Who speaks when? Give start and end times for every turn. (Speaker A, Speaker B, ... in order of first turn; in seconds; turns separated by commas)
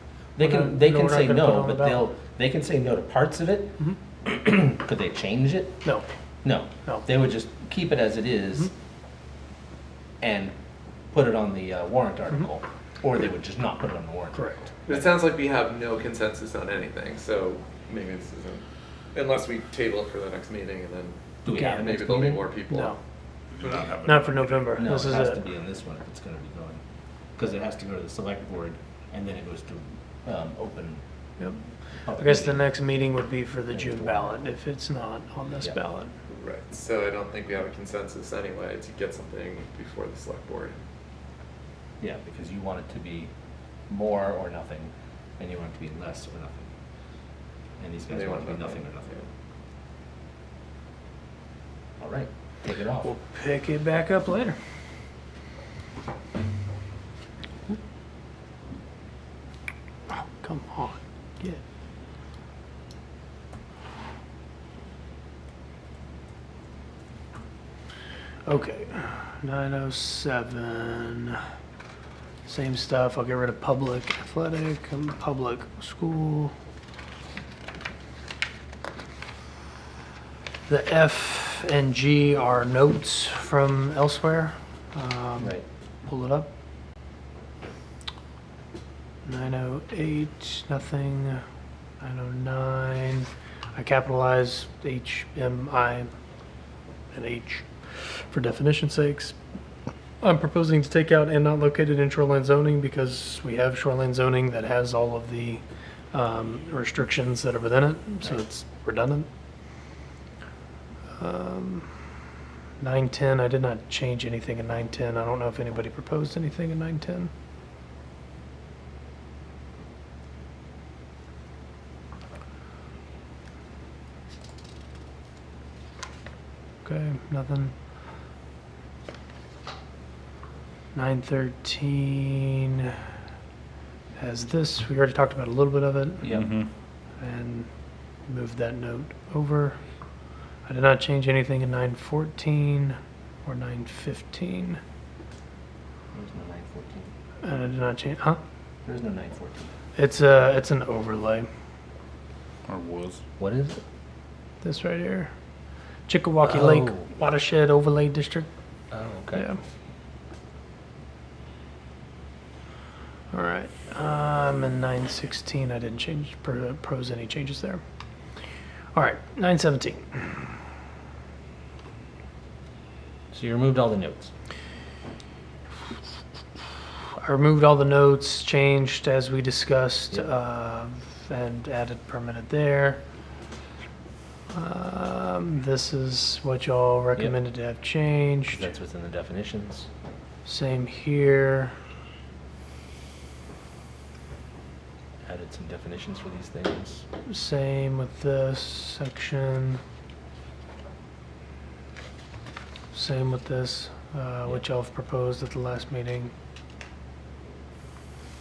Speaker A: 0.3-5.8, Speaker B: 0.4-2.1, Speaker A: 6.4-8.7, Speaker A: 10.2-10.5, Speaker A: 11.1-15.1, Speaker B: 14.3-14.6, Speaker C: 14.9-18.6, Speaker C: 19.1-23.0, Speaker A: 21.4-22.4, Speaker B: 22.7-23.0, Speaker D: 23.5-24.9, Speaker C: 23.6-23.9, Speaker B: 24.0-25.4, Speaker A: 24.8-26.8, Speaker A: 27.4-31.0, Speaker B: 31.4-36.1, Speaker A: 32.1-32.6, Speaker A: 33.7-34.3, Speaker C: 36.3-40.8, Speaker A: 42.0-43.3, Speaker A: 43.9-46.7, Speaker A: 47.8-49.1, Speaker C: 48.1-49.2, Speaker A: 52.0-53.1, Speaker B: 53.0-54.6, Speaker B: 60.1-61.6, Speaker B: 68.5-71.4, Speaker B: 72.5-76.5, Speaker B: 80.7-86.5, Speaker A: 85.4-85.7, Speaker B: 89.2-91.4, Speaker B: 92.0-96.1, Speaker B: 97.1-99.3, Speaker B: 100.2-105.6, Speaker B: 106.1-109.3, Speaker B: 111.2-111.9, Speaker B: 112.8-117.3, Speaker B: 126.8-127.7, Speaker B: 130.9-133.0, Speaker B: 134.2-136.3, Speaker A: 136.2-136.5, Speaker D: 136.3-136.7, Speaker B: 137.2-137.7, Speaker B: 138.3-139.8, Speaker B: 140.7-144.8, Speaker A: 146.1-147.1, Speaker B: 147.4-148.4, Speaker A: 148.8-149.7, Speaker B: 150.0-151.5, Speaker D: 152.7-153.2, Speaker A: 153.4-153.8, Speaker B: 154.6-155.3, Speaker B: 156.1-158.5, Speaker A: 156.4-157.1, Speaker A: 158.9-159.5, Speaker B: 159.3-159.6, Speaker B: 163.3-167.8, Speaker B: 168.9-170.4, Speaker A: 173.3-174.3, Speaker B: 177.2-183.0, Speaker B: 184.5-188.7, Speaker A: 188.5-189.9, Speaker B: 190.4-191.7, Speaker A: 195.2-197.1, Speaker B: 197.3-199.8, Speaker B: 202.9-206.3